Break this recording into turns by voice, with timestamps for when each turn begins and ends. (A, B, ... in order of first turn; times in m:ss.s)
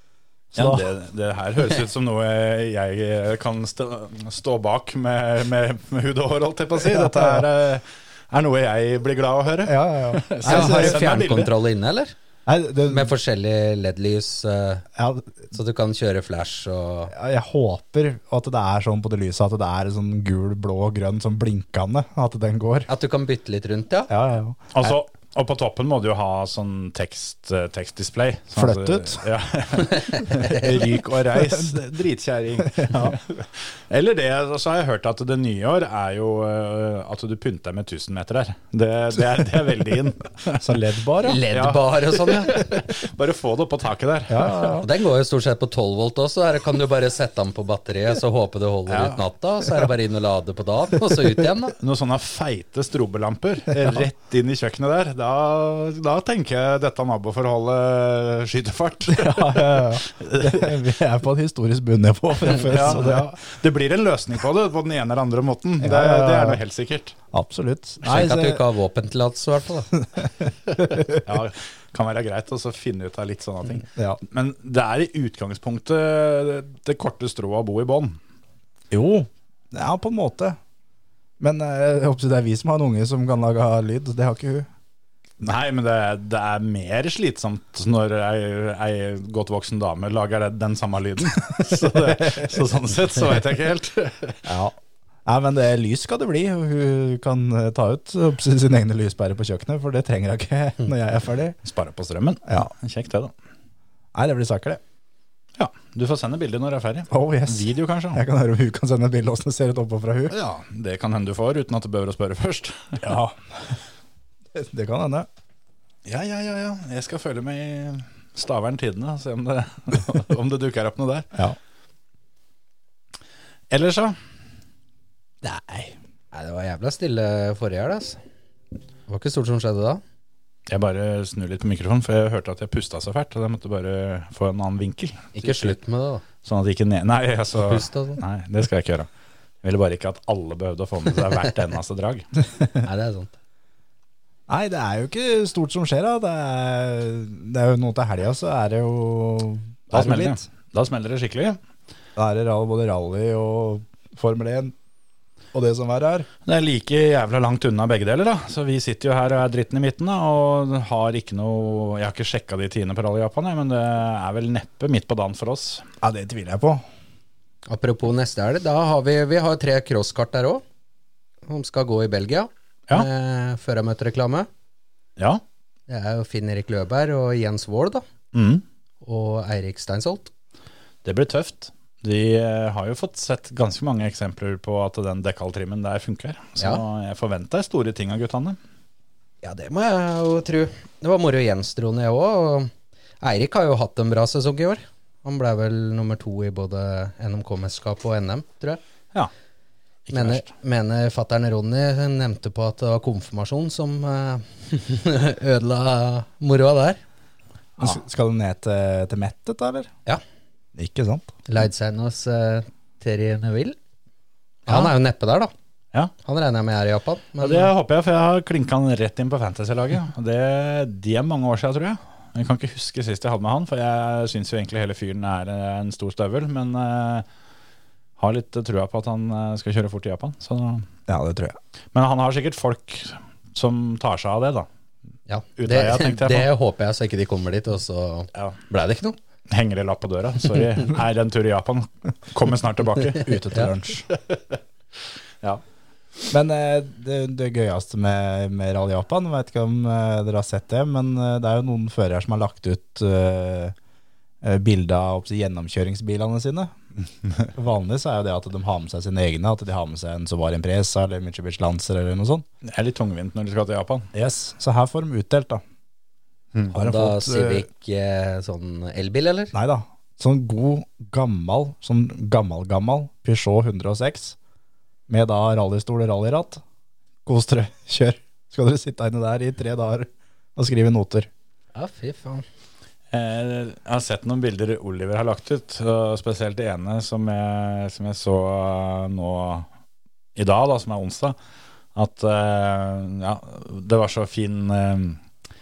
0:00.5-0:00.8 A
0:00.5-0:11.5 B
0:06.8-0:07.5 A
0:09.6-0:11.2 A
0:10.4-0:12.1 C
0:12.4-0:13.1 A
0:12.9-0:14.8 C
0:14.9-0:15.5 A
0:15.5-0:17.1 C
0:17.1-0:22.9 A
0:22.9-0:24.1 C
0:24.1-0:24.9 A
0:24.7-0:40.7 B
0:28.6-0:29.2 A
0:29.9-0:30.8 C
0:31.3-0:31.7 A
0:32.7-0:33.2 A
0:40.6-0:41.4 A
0:41.2-0:42.8 C
0:41.5-0:44.8 B
0:44.3-0:44.9 A
0:44.8-0:51.7 C
0:48.9-0:49.2 B
0:51.8-1:00.8 B
0:59.1-1:03.3 A
1:02.7-1:07.2 B
1:05.8-1:06.6 A
1:07.3-1:08.6 A
1:08.0-1:09.9 C
1:10.0-1:11.2 A
1:11.1-1:18.2 B
1:18.9-1:20.6 A
1:21.4-1:24.7 A
1:25.4-1:34.4 B
1:31.9-1:32.5 A
1:34.4-1:34.7 A
1:35.2-1:41.6 A
1:41.6-1:43.3 B
1:44.1-1:44.8 A
1:45.6-1:48.2 B
1:47.1-1:50.3 A
1:50.3-1:53.1 B
1:53.0-1:53.8 A
1:54.5-1:55.3 A
1:56.0-2:01.3 B
2:03.7-2:04.2 B
2:05.4-2:05.9 A
2:06.3-2:08.2 C
2:09.1-2:10.0 C
2:10.7-2:15.8 B
2:15.3-2:16.2 C
2:16.4-2:19.1 B
2:17.6-2:18.2 C
2:19.6-2:22.3 B
2:22.8-2:23.3 C
2:24.5-2:30.4 A
2:29.9-2:31.6 B
2:32.2-2:34.7 A
2:35.5-2:36.3 A
2:36.4-2:45.8 B
2:46.0-2:46.8 A
2:47.7-2:50.6 C
2:51.4-2:54.5 C
2:55.9-2:58.0 C
2:58.3-2:58.6 B
2:59.0-3:00.3 C
3:01.0-3:08.6 B
3:09.4-3:18.8 C
3:20.1-3:20.4 B
3:20.1-3:27.0 C
3:27.8-3:29.9 A
3:30.7-3:31.3 A
3:31.5-3:33.8 C
3:34.6-3:35.5 C
3:36.2-3:37.7 C
3:37.4-3:47.2 B
3:48.2-3:50.8 B
3:51.1-3:51.6 A
3:51.9-3:54.7 B
3:55.3-3:59.2 C
3:55.6-3:56.5 B
3:59.5-4:04.6 B
4:03.1-4:04.0 A
4:06.3-4:13.7 A
4:14.4-4:16.7 A
4:17.5-4:22.4 A
4:22.6-4:24.1 B
4:24.1-4:25.6 A
4:26.7-4:27.7 A
4:26.7-4:29.5 C
4:29.5-4:34.4 A
4:35.1-4:36.6 A
4:37.2-4:41.3 A
4:41.7-4:42.4 C
4:43.1-4:49.7 B
4:50.4-4:51.4 B
4:52.0-4:55.2 B